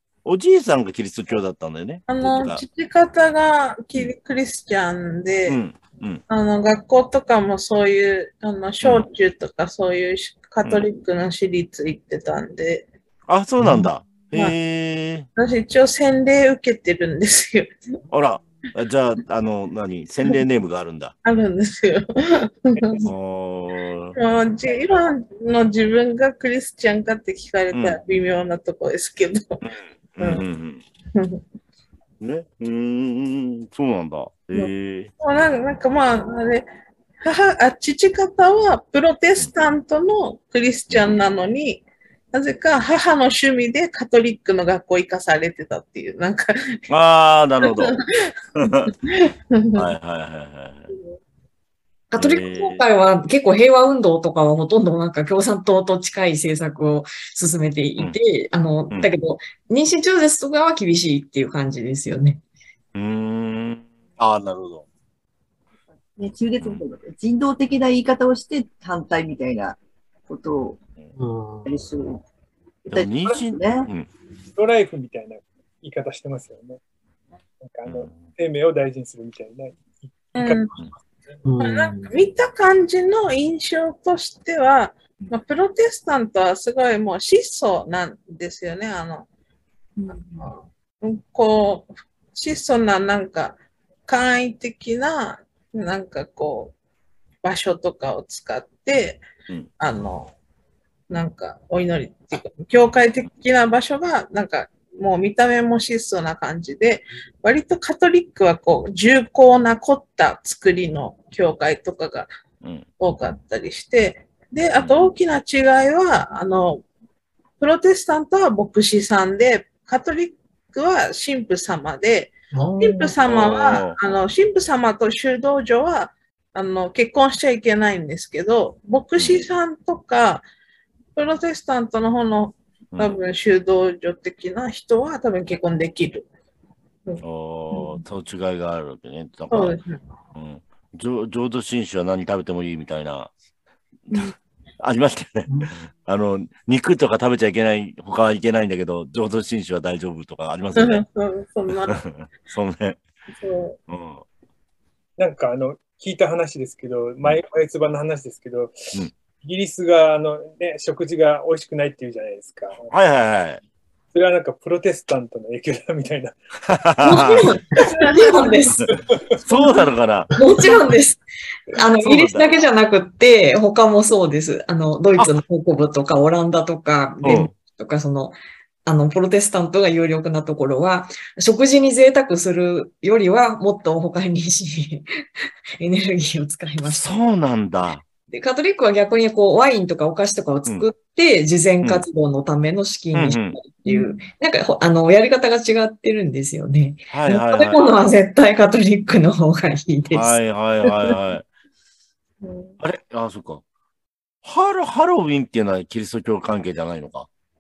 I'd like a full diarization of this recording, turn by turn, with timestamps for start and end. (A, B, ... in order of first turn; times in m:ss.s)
0:00.2-0:02.6 A
0:02.1-0:05.6 B
0:05.4-0:06.2 A
0:06.3-0:12.9 B
0:08.8-0:09.1 A
0:10.6-0:10.9 A
0:13.3-0:15.3 A
0:13.6-0:13.9 C
0:15.4-0:17.7 B
0:18.1-0:21.2 A
0:21.2-0:23.1 B
0:22.8-0:23.1 D
0:23.0-0:24.2 A
0:24.2-0:29.6 B
0:27.7-0:28.0 A
0:29.6-0:30.8 A
0:30.2-0:30.4 B
0:31.1-0:31.4 B
0:32.2-0:35.1 A
0:34.5-0:36.7 B
0:37.2-0:46.4 B
0:46.9-0:48.0 A
0:47.6-0:48.0 B
0:48.6-0:48.9 A
0:48.6-0:49.9 B
0:49.8-0:50.9 A
0:52.1-1:02.4 E
0:52.2-0:52.8 A
1:02.9-1:04.9 A
1:06.2-1:10.8 F
1:06.6-1:06.9 A
1:11.2-1:11.7 C
1:11.6-1:12.2 F
1:12.8-1:13.9 F
1:12.9-1:14.1 A
1:14.6-1:16.8 D
1:17.6-1:21.4 D
1:17.9-1:18.3 A
1:20.3-1:20.7 B
1:21.4-1:22.1 C
1:21.6-1:29.3 B
1:30.0-1:30.5 F
1:30.2-1:36.8 B
1:37.4-1:39.2 B
1:39.8-1:40.3 B
1:41.1-1:52.3 B
1:53.0-1:56.8 B
1:54.8-1:55.1 A
1:57.6-2:10.4 B
2:02.5-2:03.2 C
2:03.2-2:04.0 A
2:09.2-2:09.5 A
2:11.2-2:16.2 B
2:17.0-2:18.0 B
2:17.2-2:19.8 A
2:19.5-2:20.0 B
2:20.4-2:23.3 A
2:24.1-2:31.0 A
2:25.5-2:25.8 C
2:30.8-2:32.0 B
2:31.7-2:33.0 A
2:33.4-2:33.8 B
2:33.9-2:34.2 A
2:35.2-2:42.9 D
2:42.9-2:43.6 A
2:44.1-2:46.4 D
2:46.7-2:47.5 A
2:47.0-2:48.9 E
2:48.0-2:48.5 B
2:48.8-2:49.4 D
2:49.4-2:50.4 A
2:50.4-3:05.0 E
2:52.0-2:52.5 A
2:57.2-2:57.5 A
3:05.8-3:07.1 E
3:06.8-3:08.0 A
3:08.3-3:20.4 E
3:11.8-3:12.1 A
3:13.1-3:13.6 A
3:13.9-3:14.2 F
3:17.1-3:17.9 A
3:20.1-3:21.5 A
3:22.4-3:22.7 F
3:22.8-3:23.6 A
3:24.4-3:27.3 A